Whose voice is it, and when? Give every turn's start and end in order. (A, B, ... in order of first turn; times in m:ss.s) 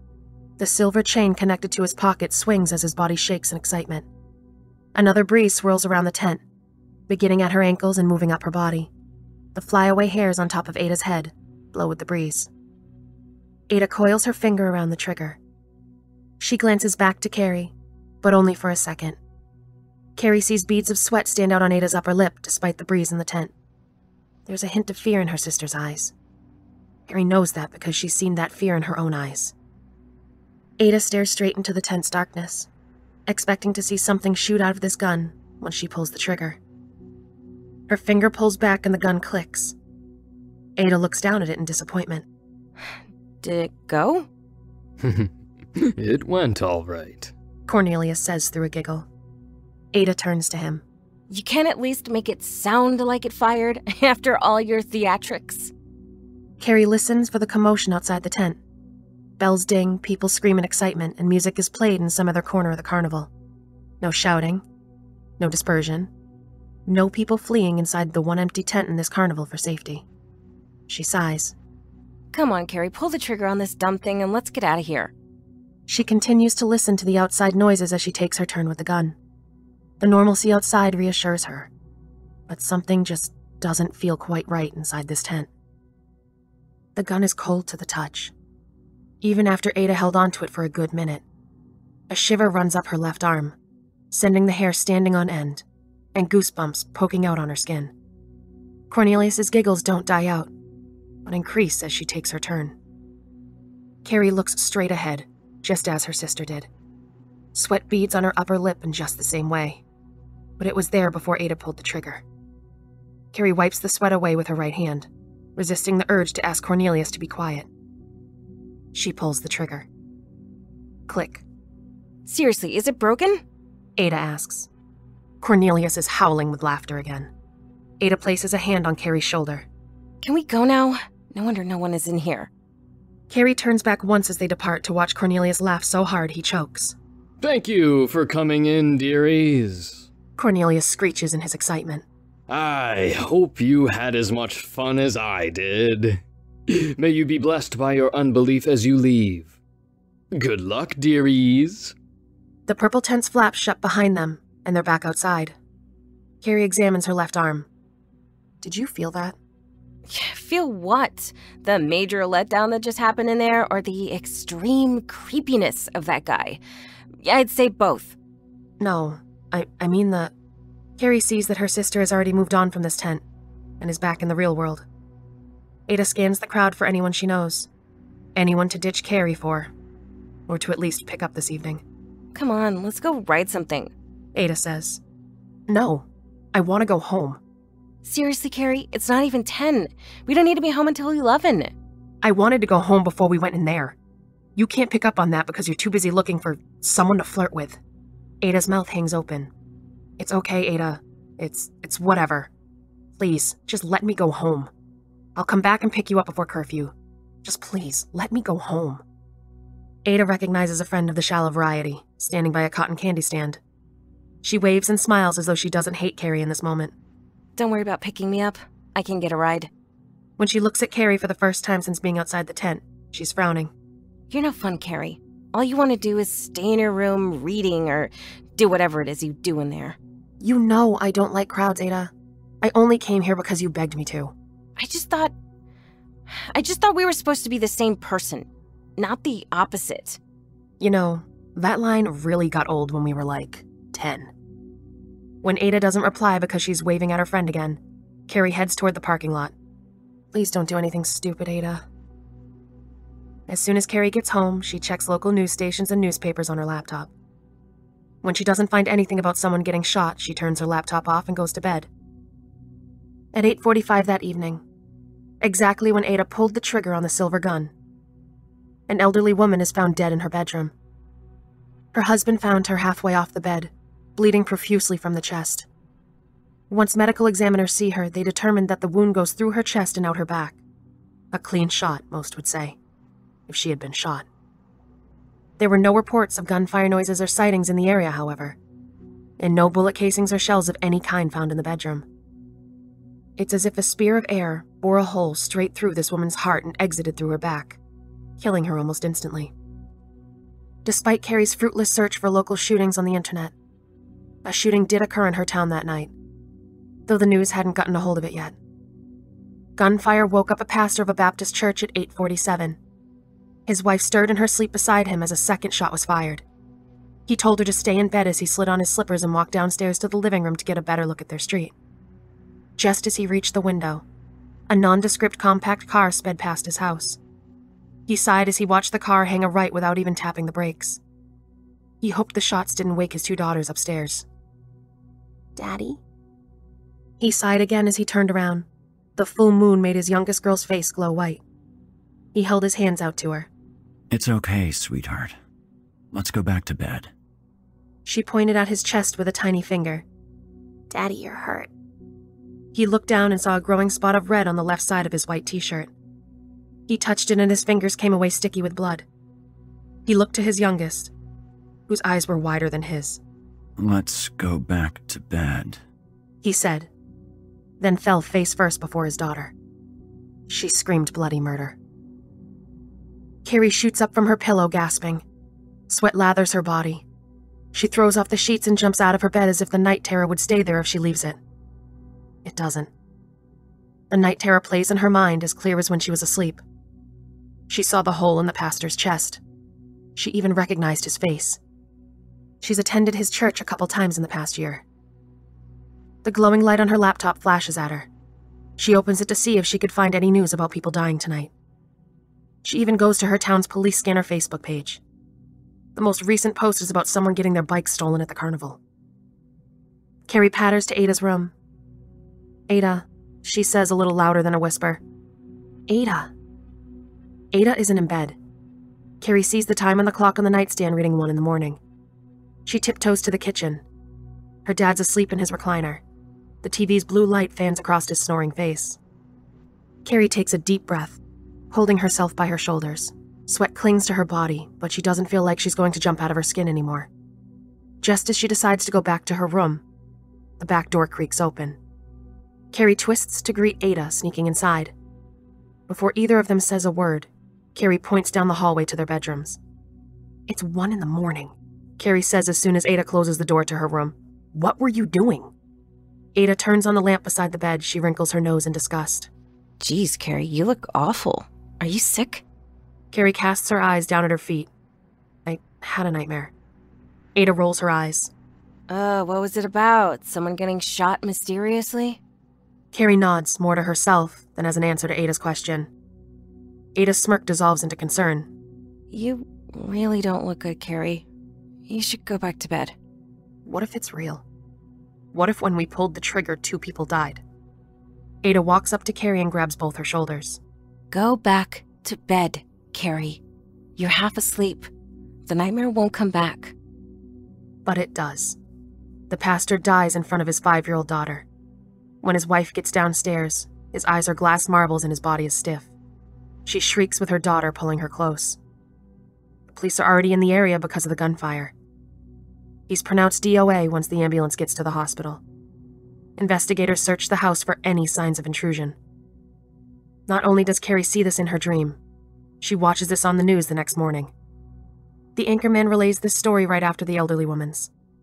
0:00.6-0:04.1 A
0:05.0-0:06.4 A
0:07.1-0:08.9 A
0:09.6-0:12.5 A
0:13.7-0:15.4 A
0:16.4-0:19.2 A
0:20.2-0:23.5 A
0:24.5-0:26.1 A
0:27.1-0:29.5 A
0:30.8-0:32.7 A
0:33.3-0:36.6 A
0:37.9-0:39.8 A
0:40.8-0:42.2 A
0:43.4-0:44.3 B
0:45.0-0:47.3 C
0:47.7-0:49.1 A
0:49.9-0:50.8 A
0:51.3-0:55.7 B
0:56.6-0:58.6 A
0:59.4-1:03.3 A
1:04.0-1:04.6 A
1:05.4-1:06.1 A
1:06.9-1:10.0 A
1:10.9-1:11.6 A
1:12.3-1:15.1 B
1:15.9-1:19.2 A
1:20.0-1:21.7 A
1:22.5-1:25.5 A
1:27.0-1:28.3 A
1:29.2-1:31.2 A
1:32.1-1:33.6 A
1:34.1-1:35.6 A
1:36.2-1:37.9 A
1:38.9-1:40.5 A
1:41.2-1:42.8 A
1:44.0-1:46.7 A
1:47.5-1:49.8 A
1:50.6-1:52.2 A
1:53.3-1:57.7 A
1:58.9-1:59.9 A
2:01.1-2:01.4 A
2:02.3-2:03.4 B
2:04.0-2:04.7 A
2:05.4-2:07.3 A
2:08.0-2:09.7 A
2:10.2-2:12.5 B
2:13.3-2:17.0 A
2:17.4-2:20.1 C
2:20.4-2:22.0 A
2:22.5-2:29.6 C
2:30.3-2:31.9 C
2:32.7-2:35.6 A
2:36.4-2:37.7 A
2:38.6-2:39.4 A
2:40.1-2:46.6 B
2:47.2-2:48.2 B
2:48.8-2:50.3 A
2:51.0-2:53.2 A
2:53.8-2:54.8 A
2:55.9-2:57.7 A
2:58.4-2:59.7 A
3:00.5-3:01.8 A
3:02.4-3:03.9 B
3:04.4-3:05.0 A
3:05.7-3:07.4 A
3:08.0-3:11.7 B
3:12.2-3:14.0 A
3:14.6-3:17.8 A
3:18.4-3:19.5 A
3:20.2-3:22.5 A
3:23.2-3:24.7 A
3:25.4-3:29.0 A
3:30.0-3:33.6 A
3:34.4-3:36.9 A
3:37.6-3:39.7 B
3:40.4-3:43.7 A
3:44.3-3:50.0 B
3:50.4-3:54.3 A
3:54.8-3:55.3 B
3:56.3-4:00.2 B
4:00.8-4:04.3 A
4:05.4-4:09.5 A
4:10.3-4:11.8 A
4:13.5-4:17.1 A
4:18.2-4:21.9 A
4:23.3-4:24.6 A
4:25.4-4:27.7 A
4:28.9-4:30.7 A
4:31.9-4:35.7 A
4:36.7-4:40.6 A
4:41.3-4:42.8 A
4:43.5-4:44.2 A
4:45.6-4:48.6 A
4:49.4-4:52.1 A
4:53.4-4:57.8 A
4:58.4-4:59.5 A
5:00.8-5:03.5 A
5:04.4-5:06.1 A
5:07.1-5:08.6 A
5:09.8-5:12.8 A
5:13.7-5:16.4 A
5:17.3-5:21.7 A
5:22.8-5:24.0 A
5:24.7-5:27.2 A
5:28.1-5:31.0 A
5:32.0-5:34.3 A
5:35.6-5:36.0 A
5:37.2-5:41.4 A
5:42.3-5:43.5 A
5:44.1-5:45.4 D
5:46.1-5:47.1 D
5:48.0-5:50.0 A
5:50.9-5:51.7 A
5:52.7-5:55.9 A
5:56.9-5:59.0 A
6:00.1-6:01.1 A
6:01.9-6:03.2 A
6:03.8-6:05.8 D
6:06.4-6:06.9 A
6:07.8-6:09.5 A
6:10.5-6:11.8 A
6:13.4-6:15.2 A
6:15.9-6:17.0 A
6:17.7-6:21.4 A
6:22.4-6:22.9 A
6:24.1-6:26.6 A
6:27.7-6:29.4 A
6:30.2-6:31.6 A
6:32.6-6:34.8 A
6:36.2-6:38.1 A
6:38.8-6:41.5 A
6:42.6-6:45.0 A
6:46.0-6:48.8 A
6:50.3-6:51.5 A
6:52.7-6:55.0 A
6:55.9-6:56.3 A
6:57.5-6:58.4 A
6:59.2-7:01.8 A
7:02.7-7:03.8 A
7:04.6-7:06.0 A
7:06.6-7:09.0 A
7:10.0-7:11.2 A
7:11.7-7:17.1 A
7:18.0-7:19.8 A
7:20.6-7:21.8 A
7:22.7-7:24.9 A
7:25.9-7:29.6 A
7:30.5-7:35.5 A
7:36.4-7:39.3 A
7:39.8-7:42.4 B
7:43.1-7:44.7 A
7:45.5-7:46.5 A
7:47.4-7:48.3 A
7:48.9-7:52.2 B
7:52.9-7:55.9 A
7:57.0-7:58.5 A
7:59.1-8:01.3 B
8:01.9-8:03.0 B
8:03.6-8:04.4 A
8:05.3-8:07.4 A
8:08.4-8:10.6 A
8:11.1-8:13.4 B
8:14.0-8:14.9 B
8:15.5-8:16.7 B
8:17.8-8:18.6 A
8:19.3-8:21.4 A
8:22.2-8:25.9 A
8:26.7-8:28.6 A
8:29.7-8:31.7 A
8:32.9-8:35.4 A
8:36.4-8:39.0 A
8:40.3-8:42.0 A
8:42.6-8:44.3 A
8:45.4-8:47.9 A